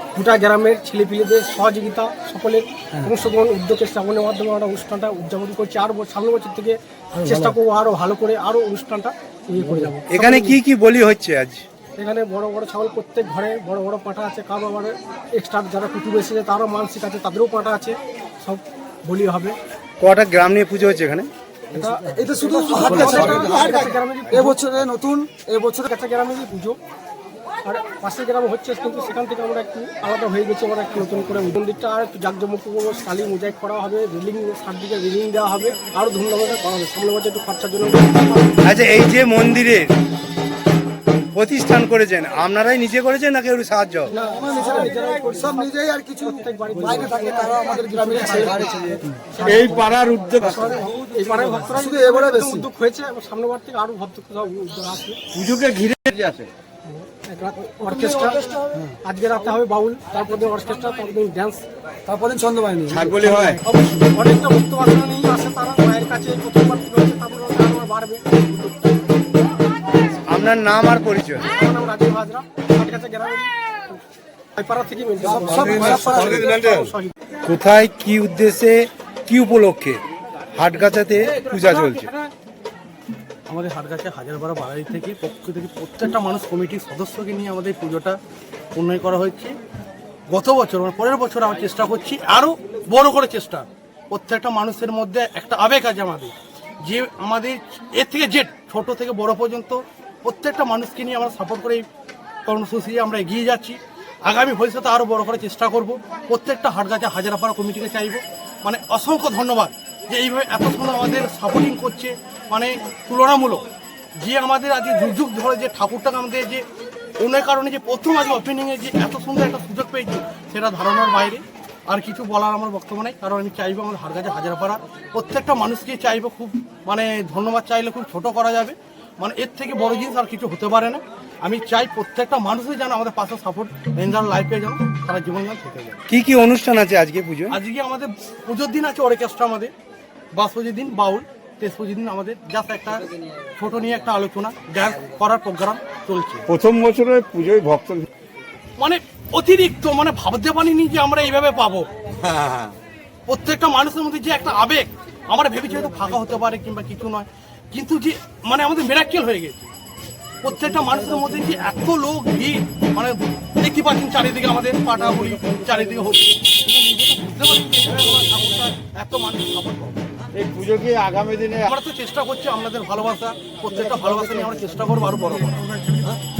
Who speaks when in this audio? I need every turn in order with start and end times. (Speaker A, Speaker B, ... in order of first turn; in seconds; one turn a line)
Speaker A: 0.1-10.6
Speaker B: 10.1-11.6
Speaker A: 12.0-19.6
Speaker B: 20.0-21.3
Speaker A: 21.7-24.6
Speaker C: 21.8-25.9
Speaker D: 22.9-23.2
Speaker A: 25.9-26.8
Speaker A: 27.6-38.6
Speaker B: 38.6-39.9
Speaker B: 41.3-44.1
Speaker A: 44.1-48.7
Speaker C: 44.2-49.0
Speaker A: 49.3-55.2
Speaker E: 49.4-50.8
Speaker C: 51.7-52.6
Speaker E: 55.3-56.5
Speaker A: 56.8-58.4
Speaker C: 57.9-58.8
Speaker A: 59.0-61.6
Speaker C: 62.0-63.5
Speaker E: 62.9-63.6
Speaker A: 63.5-68.9
Speaker B: 70.3-71.5
Speaker A: 71.5-74.0
Speaker A: 74.5-77.1
Speaker C: 75.2-76.7
Speaker E: 75.9-76.9
Speaker B: 77.4-80.0
Speaker B: 80.5-82.1
Speaker D: 83.5-88.2
Speaker D: 88.7-89.5
Speaker D: 90.3-101.8
Speaker D: 102.4-113.6
Speaker D: 114.2-116.6
Speaker D: 117.2-136.0
Speaker B: 136.1-137.6
Speaker D: 137.5-139.7
Speaker D: 140.3-146.4
Speaker E: 146.5-148.1
Speaker D: 148.8-151.9
Speaker E: 152.3-152.7
Speaker D: 153.3-159.7
Speaker D: 160.4-170.1
Speaker E: 170.3-171.7
Speaker D: 171.6-176.2